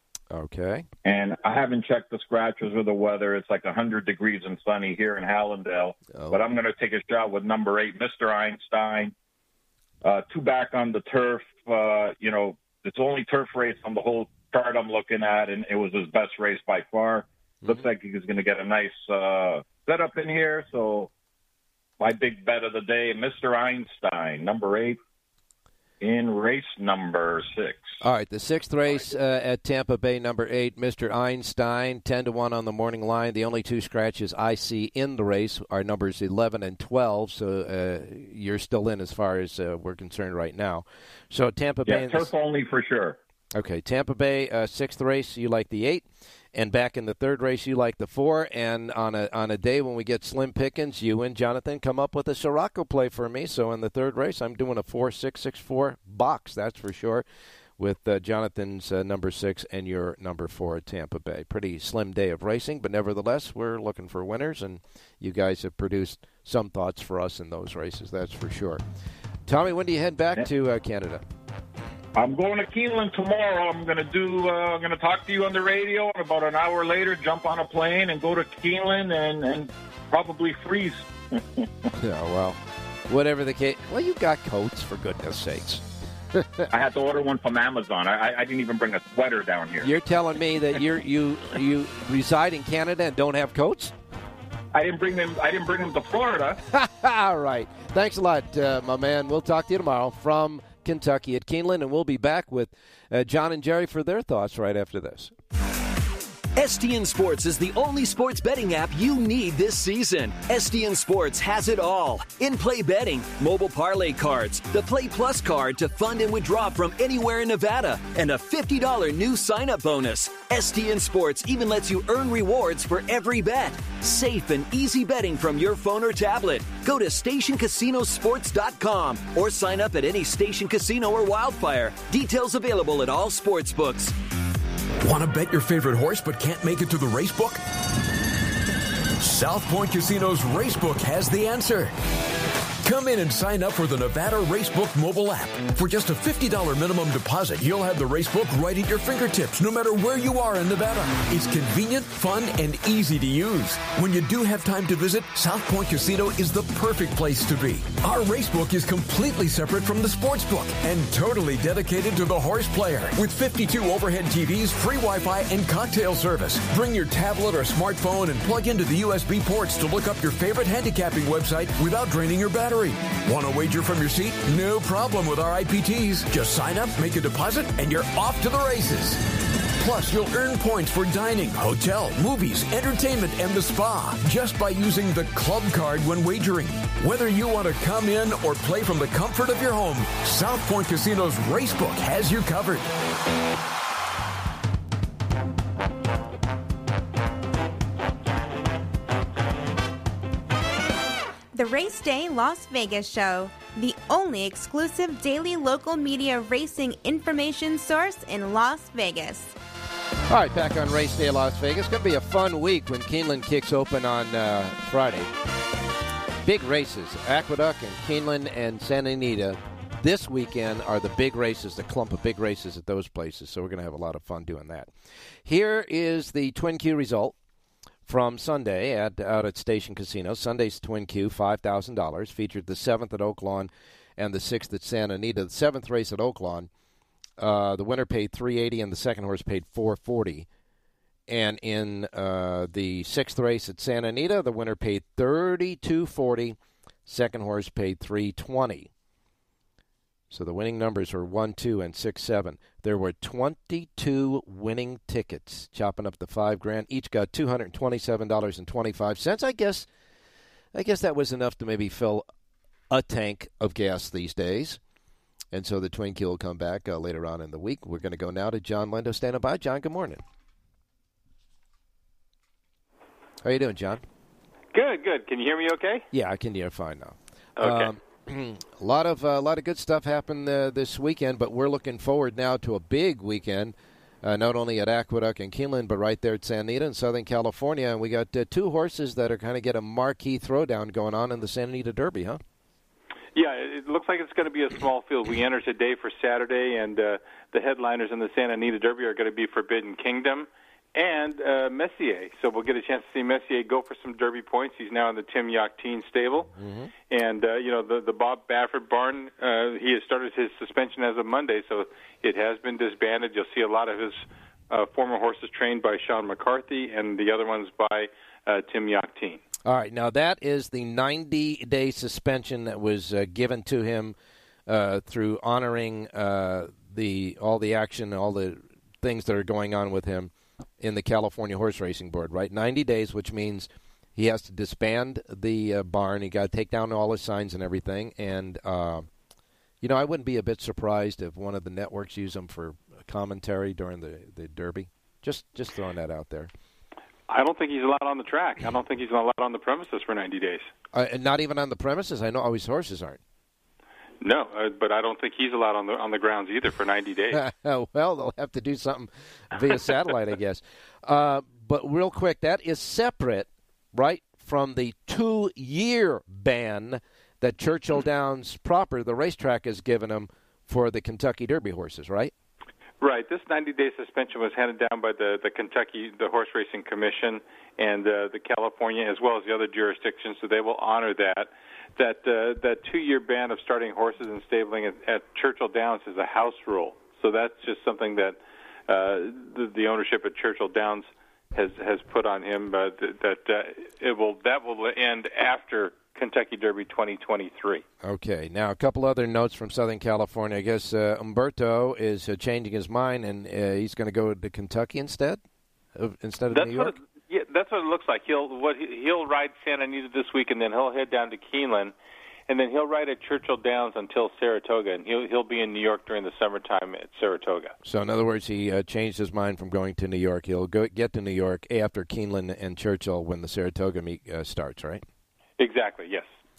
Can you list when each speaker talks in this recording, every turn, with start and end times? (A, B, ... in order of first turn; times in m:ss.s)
0:00.3-0:00.9 A
0:01.0-0:09.1 B
0:06.1-0:06.4 A
0:10.0-0:21.1 B
0:22.0-0:25.0 B
0:26.0-0:28.0 B
0:28.0-0:42.3 A
0:41.9-0:43.2 B
0:43.6-0:57.2 A
0:57.8-1:08.8 A
1:09.5-1:11.2 A
1:12.2-1:21.7 B
1:22.0-1:26.7 A
1:26.7-1:29.9 B
1:29.8-1:33.9 A
1:34.7-1:36.6 B
1:36.7-1:45.3 A
1:46.6-2:14.2 C
2:15.0-2:17.6 D
2:19.2-2:21.9 D
2:22.8-2:59.2 D
2:59.8-3:12.9 D
3:21.5-3:29.6 E
3:30.3-3:35.3 A
3:36.4-3:44.9 A
3:45.4-3:47.4 A
3:48.1-3:56.7 A
3:57.4-4:00.5 A
4:01.3-4:08.9 A
4:10.3-4:19.9 A
4:20.7-4:22.2 A
4:22.9-4:24.8 A
4:25.5-4:30.2 A
4:33.4-4:34.0 A
4:34.7-4:36.0 F
4:36.1-4:52.4 A
4:37.6-4:37.9 F
4:53.4-5:06.5 F
5:06.6-5:06.9 A
5:07.1-5:19.4 F
5:19.6-5:24.2 A
5:24.7-5:39.1 A
5:39.8-5:46.5 A
5:47.3-5:50.7 F
5:50.9-5:53.2 A
5:54.2-5:57.4 F
5:57.3-6:12.3 A
6:13.0-6:37.8 F
6:38.0-6:45.4 A
6:46.0-6:46.9 A
6:46.5-6:51.9 F
6:52.5-6:57.7 F
6:57.8-7:05.0 A
7:05.6-7:06.3 F